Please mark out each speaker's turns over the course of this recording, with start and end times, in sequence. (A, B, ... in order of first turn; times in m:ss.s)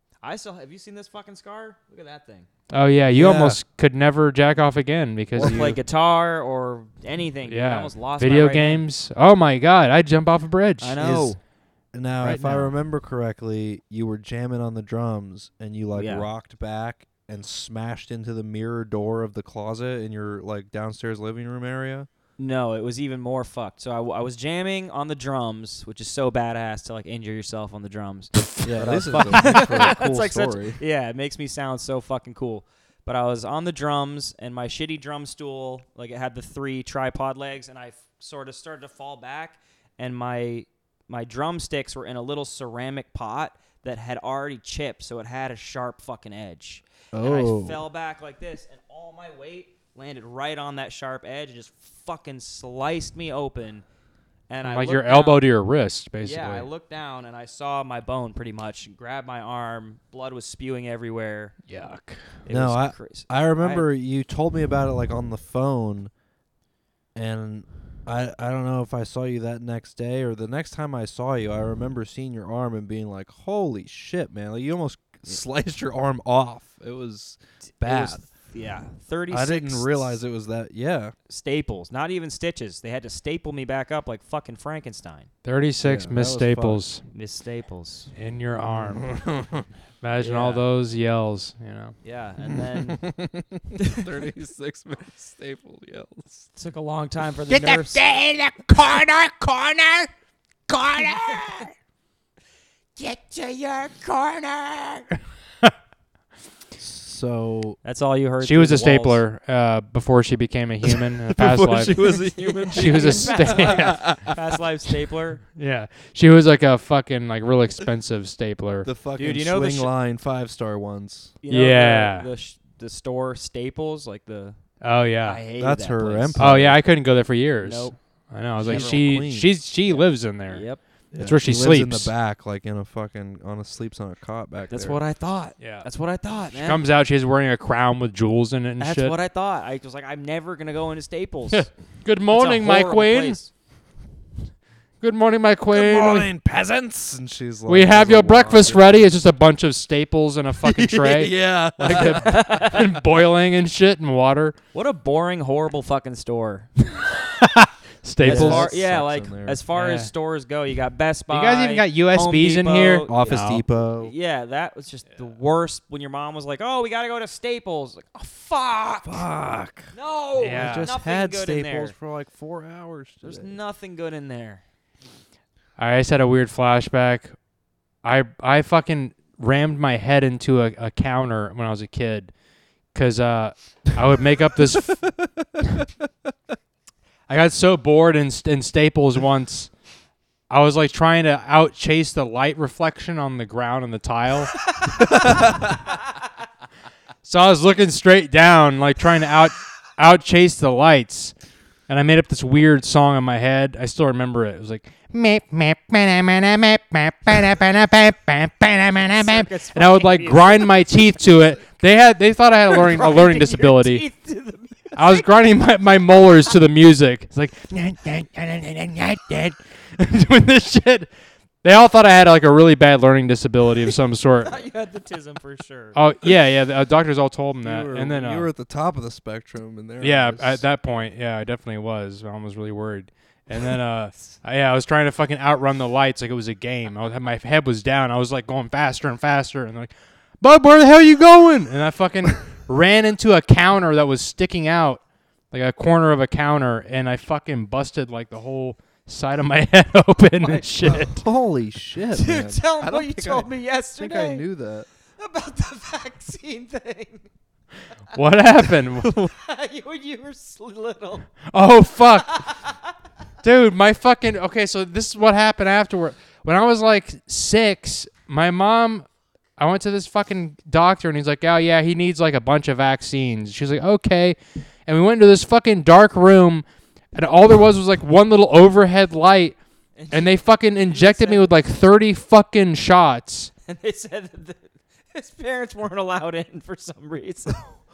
0:00.2-0:02.5 A
0:02.7-0:05.8 B
0:03.1-0:03.6 C
0:05.3-0:08.8 A
0:07.5-0:11.0 B
0:10.8-0:11.4 A
0:11.0-0:11.4 C
0:11.9-0:22.1 C
0:12.2-0:12.7 A
0:15.9-0:16.3 A
0:22.4-0:53.8 A
0:28.6-0:30.8 C
0:29.3-0:29.8 B
0:47.1-0:47.8 C
0:54.5-0:55.4 A
0:54.6-0:56.7 B
0:56.2-1:01.6 A
1:01.7-1:02.2 B
1:02.4-1:03.8 A
1:02.5-1:06.1 C
1:07.1-1:18.2 C
1:17.8-1:20.2 A
1:19.3-1:21.1 C
1:21.3-1:25.3 A
1:25.4-1:27.0 B
1:25.8-1:26.8 C
1:27.1-1:28.1 A
1:28.2-1:29.2 B
1:28.7-1:29.6 C
1:30.0-1:32.0 B
1:30.2-1:30.6 A
1:32.0-1:33.0 A
1:32.4-1:36.4 C
1:33.8-1:34.0 A
1:36.6-1:38.0 A
1:37.5-1:40.1 D
1:40.7-1:41.7 D
1:43.0-1:45.1 D
1:46.8-1:47.8 C
1:47.8-1:49.2 A
1:48.4-1:52.2 B
1:50.8-1:54.4 C
1:52.6-1:55.4 A
1:52.7-1:54.2 B
1:55.5-1:58.9 B
1:58.8-2:01.3 C
1:59.2-1:59.9 A
2:01.4-2:04.6 A
2:01.5-2:02.3 B
2:04.8-2:05.4 B
2:05.2-2:06.4 A
2:05.6-2:06.8 C
2:06.4-2:12.1 B
2:07.6-2:08.0 A
2:08.6-2:09.5 C
2:08.6-2:09.0 A
2:09.8-2:10.8 A
2:11.1-2:15.0 C
2:14.7-2:16.8 A
2:15.6-2:15.9 B
2:16.5-2:19.1 B
2:18.8-2:21.7 A
2:21.5-2:23.4 B
2:22.3-2:23.5 A
2:25.0-2:26.3 B
2:25.7-2:29.0 C
2:27.7-2:34.6 B
2:30.6-2:32.4 C
2:31.9-2:32.9 A
2:34.7-2:36.7 A
2:36.8-2:38.7 B
2:38.2-2:39.6 C
2:38.2-2:49.2 A
2:39.7-2:40.1 B
2:41.3-2:43.6 B
2:43.1-2:44.1 C
2:49.0-2:49.9 C
2:49.9-2:51.9 A
2:50.4-2:50.9 B
2:50.5-2:53.5 C
2:53.2-2:54.6 A
2:55.8-2:57.3 B
2:58.0-3:02.3 B
3:02.9-3:05.1 B
3:07.3-3:09.7 B
3:10.5-3:14.6 B
3:15.0-3:15.7 C
3:17.2-3:21.3 B
3:21.9-3:34.0 B
3:29.1-3:31.0 A
3:32.7-3:35.2 A
3:34.9-3:41.1 B
3:41.6-3:44.6 B
3:44.4-3:46.0 A
3:45.9-3:48.5 B
3:47.6-3:50.6 C
3:50.0-4:11.2 B
4:10.4-4:11.0 A
4:10.8-4:14.9 C
4:12.1-4:14.4 A
4:15.2-4:17.3 A
4:18.1-4:19.3 B
4:19.1-4:21.3 A
4:21.5-4:22.5 B
4:22.3-4:22.8 A
4:23.4-4:29.0 B
4:29.6-4:36.6 B
4:37.1-4:39.6 B
4:40.0-4:41.5 A
4:40.1-4:43.5 B
4:43.7-4:47.6 A